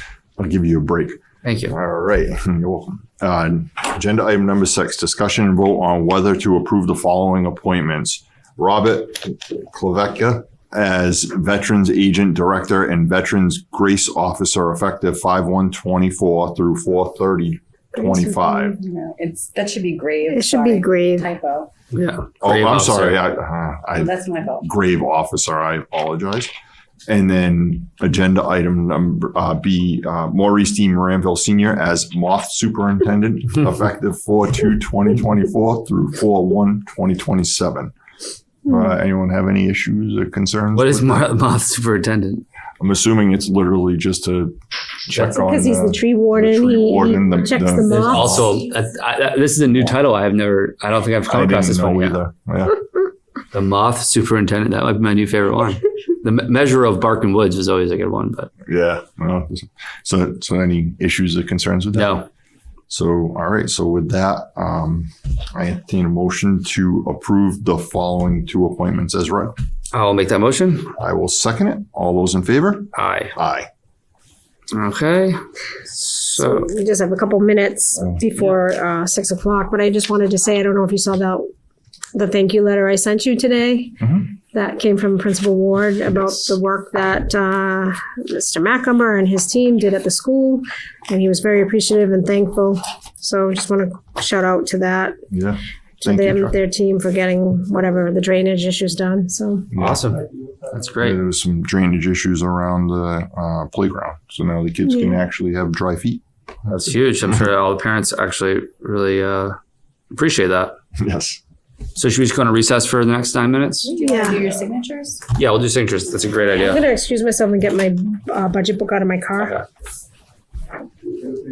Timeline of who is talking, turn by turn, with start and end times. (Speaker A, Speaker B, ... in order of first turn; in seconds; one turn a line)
Speaker A: 0.4-18.8
Speaker B: 1.4-1.8
Speaker C: 18.0-18.8
Speaker D: 18.8-21.7
Speaker C: 20.3-21.3
Speaker B: 21.9-23.3
Speaker A: 22.4-26.5
Speaker D: 23.9-24.7
Speaker A: 27.1-37.9
Speaker A: 38.6-41.3
Speaker B: 40.7-42.4
Speaker A: 42.8-48.5
Speaker B: 45.1-45.4
Speaker C: 45.2-48.6
Speaker B: 47.9-52.2
Speaker A: 51.3-52.8
Speaker B: 53.5-58.5
Speaker A: 58.7-62.2
Speaker B: 61.9-62.3
Speaker A: 62.9-69.5
Speaker B: 69.9-70.9
Speaker A: 71.0-73.7
Speaker B: 72.9-73.3
Speaker B: 74.7-76.7
Speaker C: 76.3-81.4
Speaker C: 82.1-95.2
Speaker A: 95.3-96.5
Speaker C: 96.0-99.7
Speaker A: 99.7-100.1
Speaker B: 99.7-101.2
Speaker A: 101.0-106.2
Speaker C: 104.9-105.2
Speaker B: 106.7-109.6
Speaker B: 110.1-110.8
Speaker A: 111.0-111.4
Speaker B: 111.9-113.9
Speaker D: 113.9-115.2
Speaker C: 114.0-114.4
Speaker B: 115.3-116.8
Speaker C: 116.5-119.6